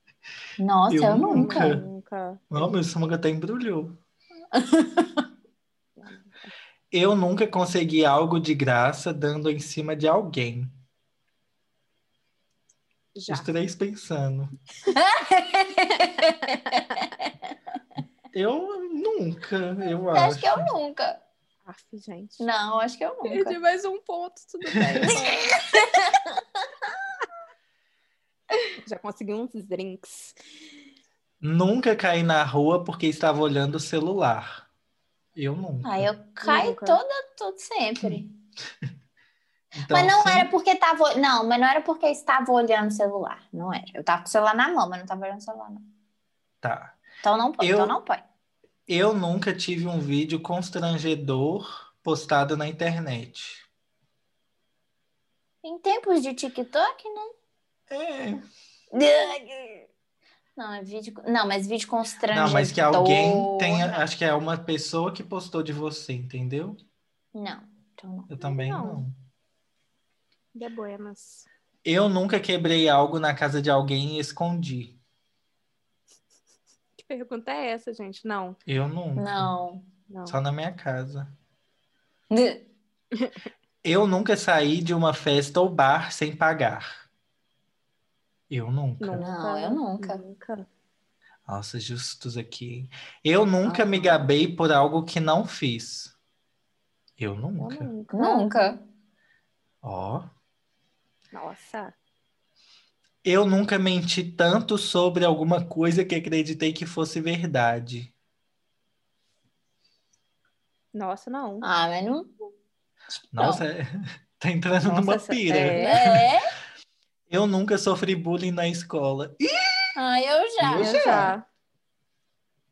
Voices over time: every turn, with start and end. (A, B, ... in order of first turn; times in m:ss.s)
0:00.6-0:01.8 A
0:00.9-0:01.8 B
0:01.3-0:02.7 C
0:02.5-0:03.9 B
0:04.5-0:05.2 A
0:06.0-0:06.5 C
0:06.9-0:10.8 B
0:13.1-0:13.5 C
0:13.3-0:14.5 B
0:14.9-0:17.5 A
0:18.3-0:20.7 B
0:20.1-0:21.2 A
0:21.6-0:22.5 C
0:22.4-0:23.6 A
0:23.2-0:25.6 C
0:24.7-0:25.1 B
0:25.0-0:26.9 A
0:28.8-0:30.4 C
0:31.4-0:34.6 B
0:35.4-0:36.1 B
0:35.8-0:38.3 A
0:36.4-0:37.0 C
0:39.8-0:40.5 B
0:39.9-0:45.8 A
0:46.6-0:47.0 B
0:47.2-0:48.2 A
0:47.6-0:48.0 B
0:48.9-0:53.7 B
0:55.6-0:57.3 A
0:57.9-0:58.4 B
0:58.9-0:59.9 A
1:00.6-1:04.0 A
1:02.3-1:06.8 B
1:07.3-1:08.3 A
1:08.3-1:09.1 B
1:08.4-1:09.0 C
1:10.5-1:11.5 C
1:11.8-1:15.0 B
1:17.0-1:18.6 C
1:18.6-1:19.5 B
1:19.2-1:19.9 A
1:20.1-1:20.4 C
1:20.3-1:21.3 B
1:22.3-1:22.6 A
1:23.8-1:27.0 B
1:28.5-1:29.3 B
1:29.0-1:30.7 C
1:29.2-1:30.2 A
1:31.5-1:36.1 B
1:33.6-1:34.3 C
1:37.2-1:37.9 B
1:37.6-1:38.6 C
1:38.1-1:38.8 A
1:39.8-1:40.3 B
1:41.3-1:41.9 C
1:43.2-1:48.1 B
1:50.9-1:51.7 C
1:51.6-1:52.3 A
1:53.3-1:56.0 B
1:53.4-1:53.6 A
1:54.9-1:56.0 C
1:55.8-1:56.5 A
1:57.3-1:59.9 B
1:59.9-2:01.3 A
2:00.6-2:01.4 B
2:00.8-2:01.4 C